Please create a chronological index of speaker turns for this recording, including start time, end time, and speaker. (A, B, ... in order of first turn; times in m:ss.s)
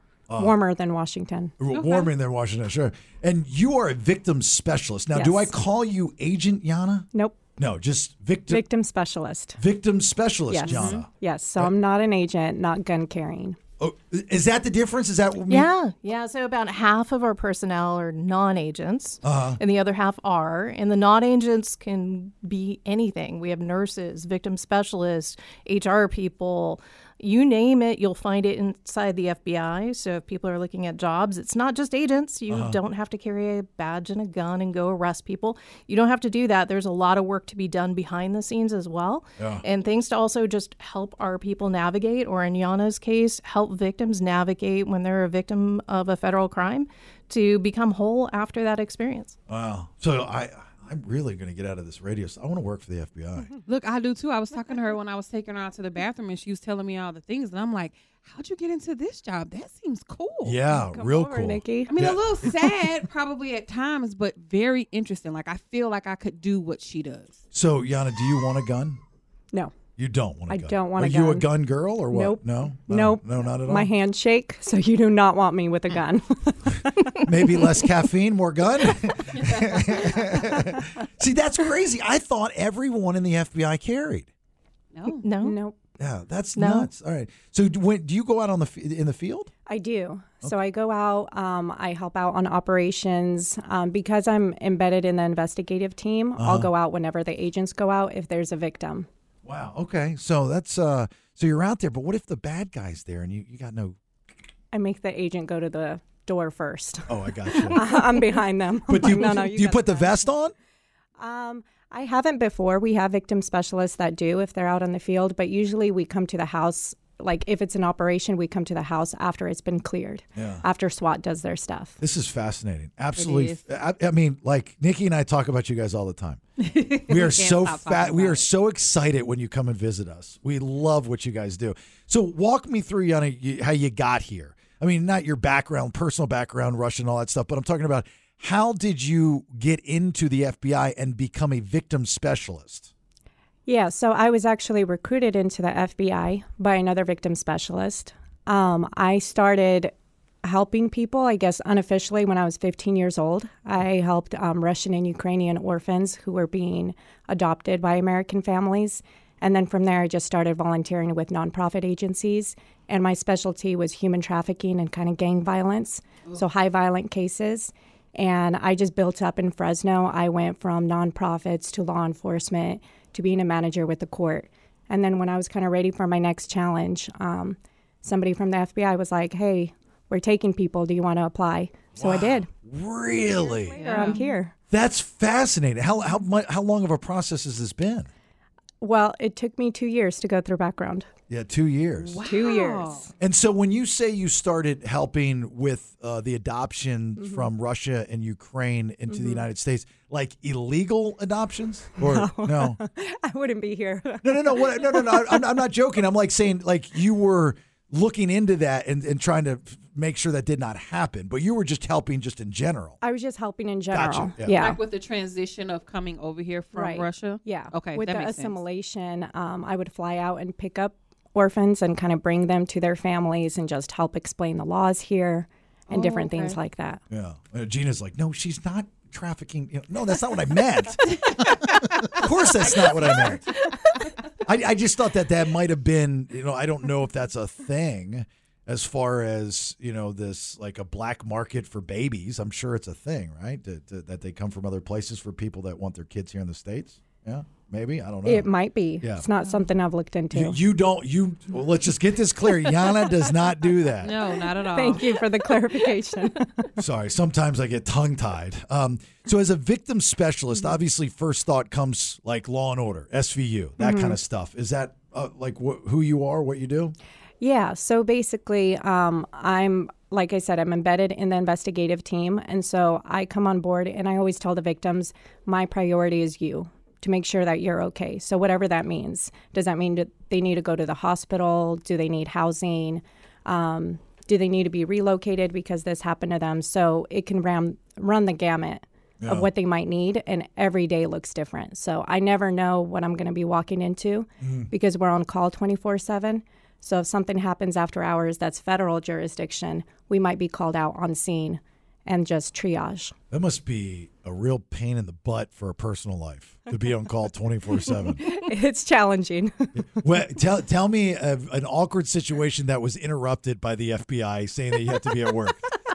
0:00.3-0:00.6 A
0:00.4-0:01.5 B
0:01.6-0:08.6 A
0:01.7-0:02.1 C
0:05.1-0:05.5 B
0:08.5-0:09.6 B
0:09.6-0:11.7 A
0:10.5-0:13.6 B
0:10.6-0:11.0 C
0:13.8-0:15.7 A
0:15.5-0:49.4 D
0:19.2-0:19.6 A
0:32.5-0:32.8 A
0:39.4-0:39.6 A
0:49.5-0:53.5 A
0:53.6-1:00.6 C
1:00.4-1:02.5 A
1:00.7-1:01.9 B
1:01.9-1:07.4 C
1:07.5-1:09.0 A
1:10.0-1:13.9 A
1:10.5-1:11.5 B
1:12.1-1:17.1 B
1:17.2-1:24.3 A
1:24.9-1:25.2 C
1:25.2-1:25.6 D
1:25.4-1:25.8 B
1:26.0-1:29.5 A
1:26.6-1:26.9 D
1:29.6-1:39.1 B
1:36.4-1:36.7 A
1:39.4-1:44.0 A
1:44.7-1:50.2 B
1:47.1-1:48.0 A
1:48.9-1:50.5 A
1:51.2-2:02.0 B
2:00.4-2:00.6 A
2:02.0-2:06.4 A
2:03.2-2:03.6 C
2:06.6-2:08.5 C
2:07.0-2:22.9 A
2:23.7-2:29.9 B
2:30.4-3:02.5 B
3:02.0-3:03.8 A
3:03.5-3:04.5 B
3:03.8-3:04.2 C
3:04.7-3:08.1 A
3:08.8-3:11.1 B
3:11.3-3:12.2 A
3:12.0-3:13.1 C
3:12.2-3:13.1 B
3:13.2-3:22.8 A
3:17.2-3:17.5 B
3:19.1-3:19.4 B
3:22.0-3:25.5 B
3:24.2-3:33.0 A
3:33.0-3:34.8 B
3:33.9-3:34.6 A
3:34.5-3:38.5 C
3:36.7-3:47.0 B
3:45.9-3:46.6 C
3:47.1-3:53.5 A
3:54.4-4:08.5 A
4:08.2-4:10.6 B
4:10.3-4:14.3 A
4:14.0-4:15.2 C
4:14.7-4:16.6 B
4:16.8-4:26.9 A
4:23.8-4:24.2 B
4:27.4-5:03.1 B
4:49.2-4:49.5 A
4:54.4-4:54.7 A
5:03.3-5:08.2 A
5:08.2-5:09.7 B
5:09.7-5:15.7 A